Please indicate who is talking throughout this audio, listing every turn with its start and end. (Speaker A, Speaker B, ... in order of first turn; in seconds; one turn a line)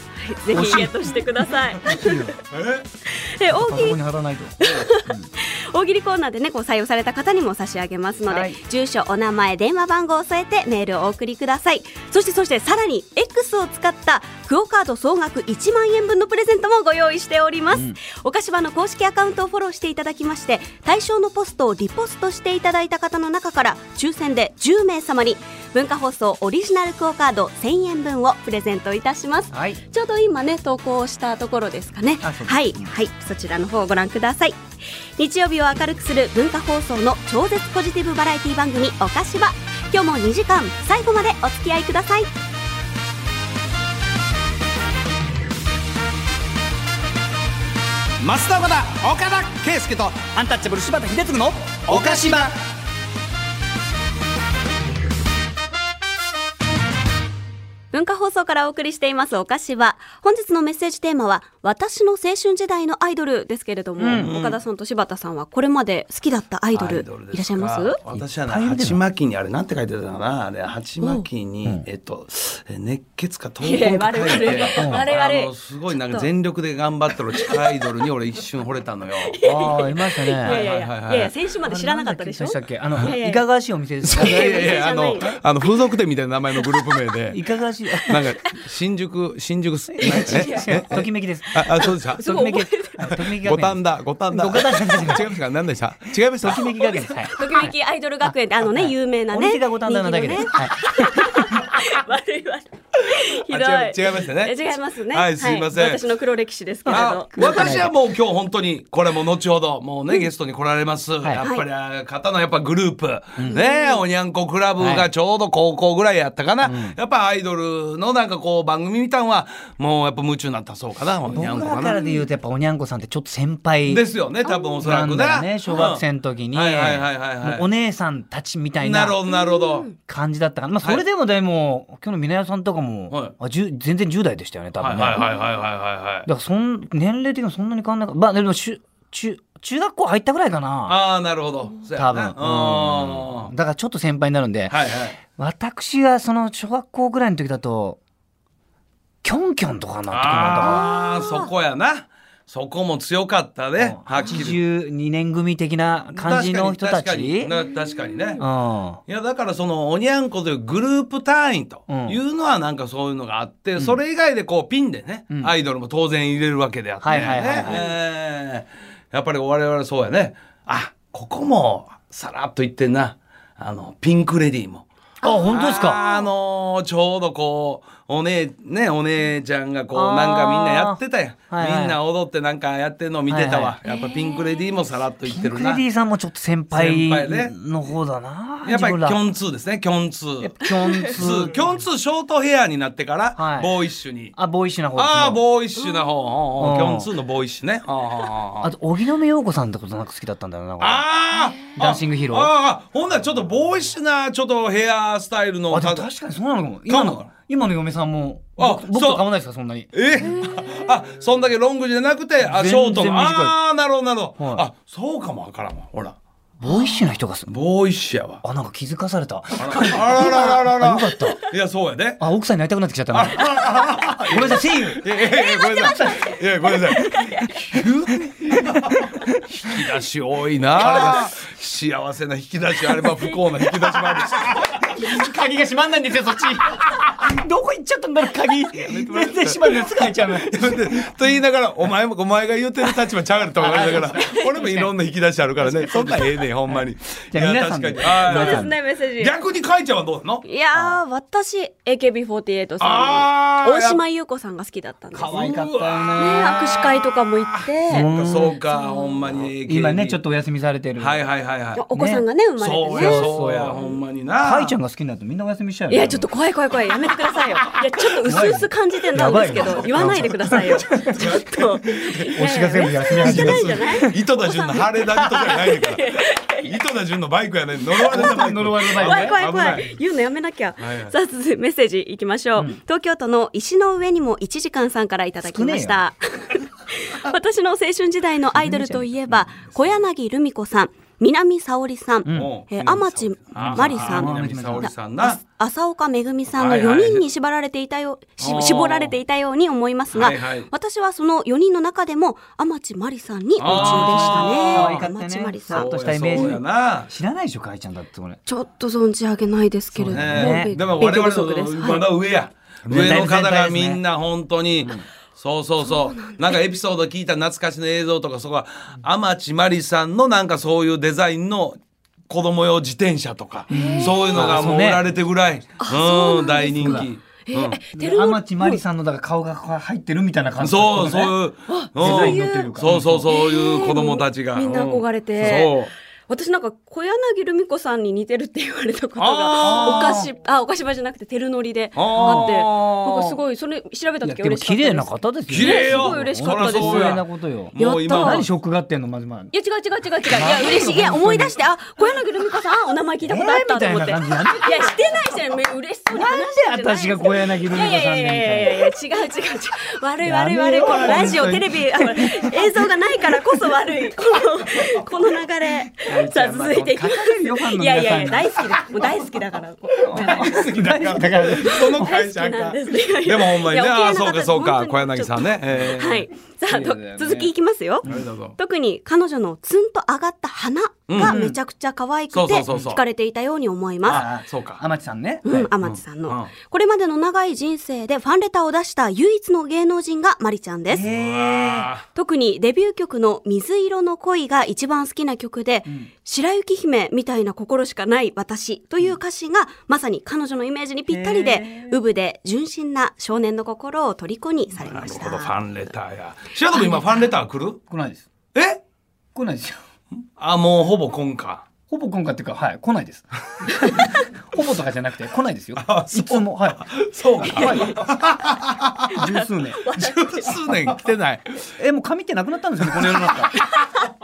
Speaker A: 0.2-2.3
Speaker B: 0.5-1.0
Speaker B: 1.8-2.3
Speaker C: 2.5-2.8
Speaker A: 3.0-4.0
Speaker B: 3.5-5.2
Speaker A: 4.6-34.6
Speaker B: 8.3-8.6
Speaker B: 29.5-29.8
Speaker B: 32.2-32.9
Speaker A: 35.2-42.3
Speaker C: 48.2-50.2
Speaker B: 50.1-52.5
Speaker C: 51.9-52.5
Speaker A: 57.9-68.0
Speaker B: 64.0-64.3
Speaker C: 64.1-64.6
Speaker C: 66.7-79.4
Speaker B: 68.1-69.0
Speaker A: 71.0-71.2
Speaker A: 73.6-76.3
Speaker B: 74.8-75.1
Speaker A: 77.3-77.8
Speaker A: 79.2-83.4
Speaker B: 79.4-80.7
Speaker C: 80.4-81.3
Speaker B: 81.6-84.6
Speaker C: 84.0-87.4
Speaker A: 84.1-85.7
Speaker B: 87.3-88.4
Speaker C: 88.0-92.3
Speaker B: 89.9-95.4
Speaker A: 90.2-90.7
Speaker A: 92.2-93.0
Speaker C: 93.0-97.0
Speaker B: 96.3-97.7
Speaker A: 97.0-107.8
Speaker B: 98.2-101.3
Speaker C: 103.2-106.0
Speaker B: 106.9-107.9
Speaker C: 106.9-122.0
Speaker A: 111.4-111.7
Speaker A: 113.5-114.0
Speaker B: 114.8-115.1
Speaker B: 116.6-117.0
Speaker B: 121.3-124.0
Speaker A: 121.9-122.2
Speaker C: 123.9-127.7
Speaker A: 124.5-124.8
Speaker B: 124.8-129.2
Speaker C: 128.8-129.9
Speaker A: 129.3-129.9
Speaker B: 130.0-135.2
Speaker C: 134.8-136.3
Speaker B: 136.3-141.0
Speaker C: 140.8-143.5
Speaker B: 141.9-144.8
Speaker C: 144.7-145.2
Speaker B: 145.3-148.0
Speaker B: 149.2-150.9
Speaker C: 150.1-154.6
Speaker A: 150.6-151.5
Speaker B: 153.8-157.5
Speaker C: 156.1-158.4
Speaker B: 158.4-159.0
Speaker C: 159.1-174.8
Speaker B: 161.9-162.2
Speaker B: 167.0-167.8
Speaker A: 167.5-167.9
Speaker B: 175.2-176.0
Speaker A: 175.2-176.3
Speaker C: 175.5-185.8
Speaker B: 179.9-182.0
Speaker B: 183.3-183.8
Speaker A: 183.8-184.7
Speaker B: 185.2-189.2
Speaker C: 186.7-187.5
Speaker C: 188.6-194.4
Speaker B: 190.4-191.8
Speaker B: 193.3-193.7
Speaker B: 194.4-195.4
Speaker C: 194.9-198.7
Speaker B: 196.6-197.1
Speaker B: 198.6-202.5
Speaker C: 200.8-206.1
Speaker B: 205.7-209.9
Speaker C: 206.9-207.3
Speaker C: 208.6-209.3
Speaker C: 209.9-216.2
Speaker B: 212.4-213.6
Speaker B: 214.4-214.7
Speaker B: 216.6-217.5
Speaker A: 216.6-217.0
Speaker C: 217.4-218.4
Speaker B: 218.4-221.4
Speaker C: 219.6-222.2
Speaker B: 222.2-223.6
Speaker C: 223.1-234.6
Speaker B: 224.3-225.1
Speaker A: 225.3-226.4
Speaker B: 225.6-226.3
Speaker A: 226.9-227.4
Speaker B: 226.9-227.3
Speaker B: 228.5-229.7
Speaker B: 230.8-231.2
Speaker B: 233.9-240.8
Speaker C: 238.7-250.4
Speaker B: 243.6-244.9
Speaker A: 244.1-244.5
Speaker B: 245.6-248.8
Speaker A: 248.2-249.4
Speaker A: 250.4-255.5
Speaker B: 250.7-251.0
Speaker C: 252.8-254.0
Speaker B: 255.1-256.6
Speaker C: 255.3-260.2
Speaker A: 256.2-258.1
Speaker B: 257.9-258.6
Speaker A: 258.6-259.3
Speaker B: 259.6-261.2
Speaker C: 261.0-261.8
Speaker A: 261.8-264.0
Speaker B: 261.9-262.2
Speaker C: 262.6-264.8
Speaker B: 262.9-263.8
Speaker B: 264.4-266.3
Speaker A: 265.9-274.9
Speaker B: 268.2-271.3
Speaker C: 271.1-271.7
Speaker B: 272.3-274.1
Speaker C: 273.1-279.9
Speaker B: 275.2-275.6
Speaker A: 275.4-276.7
Speaker A: 278.0-278.4
Speaker B: 278.1-279.4
Speaker A: 278.9-306.4
Speaker C: 280.8-281.1
Speaker B: 285.4-286.1
Speaker B: 288.5-290.0
Speaker B: 292.2-292.5
Speaker C: 292.2-295.4
Speaker B: 293.5-294.9
Speaker C: 296.5-297.2
Speaker C: 298.4-299.1
Speaker C: 300.1-300.7
Speaker C: 303.6-305.1
Speaker B: 303.6-308.4
Speaker C: 305.7-307.1
Speaker A: 308.5-312.1
Speaker B: 309.9-310.8
Speaker C: 310.1-321.8
Speaker B: 312.8-314.0
Speaker A: 315.8-316.6
Speaker C: 322.3-327.8
Speaker A: 323.7-324.6
Speaker B: 323.7-325.0
Speaker A: 325.8-328.8
Speaker B: 326.8-327.1
Speaker B: 327.9-331.4
Speaker C: 330.6-335.9
Speaker A: 331.7-332.8
Speaker B: 332.0-333.3
Speaker A: 333.3-347.2
Speaker C: 339.2-340.2
Speaker B: 339.6-340.3
Speaker C: 341.9-343.0
Speaker B: 342.1-343.3
Speaker B: 344.2-349.5
Speaker C: 345.5-348.5
Speaker A: 347.8-348.5
Speaker A: 349.5-370.7
Speaker B: 350.3-351.5
Speaker B: 353.2-355.1
Speaker B: 356.1-358.9
Speaker B: 360.2-362.5
Speaker B: 366.0-368.9
Speaker B: 370.0-372.1
Speaker C: 370.2-376.3
Speaker A: 371.5-384.3
Speaker B: 376.7-377.5
Speaker C: 378.1-378.6
Speaker C: 381.1-381.4
Speaker B: 381.2-381.6
Speaker C: 382.3-383.0
Speaker B: 384.0-385.7
Speaker C: 384.0-384.8
Speaker A: 385.4-391.1
Speaker C: 385.8-386.5
Speaker B: 390.9-391.9
Speaker C: 391.0-392.0
Speaker A: 392.1-405.5
Speaker B: 401.1-402.0
Speaker C: 404.8-407.8
Speaker A: 406.7-407.3
Speaker B: 407.9-408.2
Speaker C: 408.5-408.8
Speaker B: 409.3-409.8
Speaker C: 410.4-411.7
Speaker B: 411.9-416.9
Speaker C: 415.8-419.1
Speaker B: 417.4-418.0
Speaker A: 417.4-418.0
Speaker A: 419.1-420.6
Speaker B: 419.1-419.9
Speaker C: 420.0-421.7
Speaker B: 420.7-420.9
Speaker B: 421.8-423.6
Speaker C: 422.9-423.3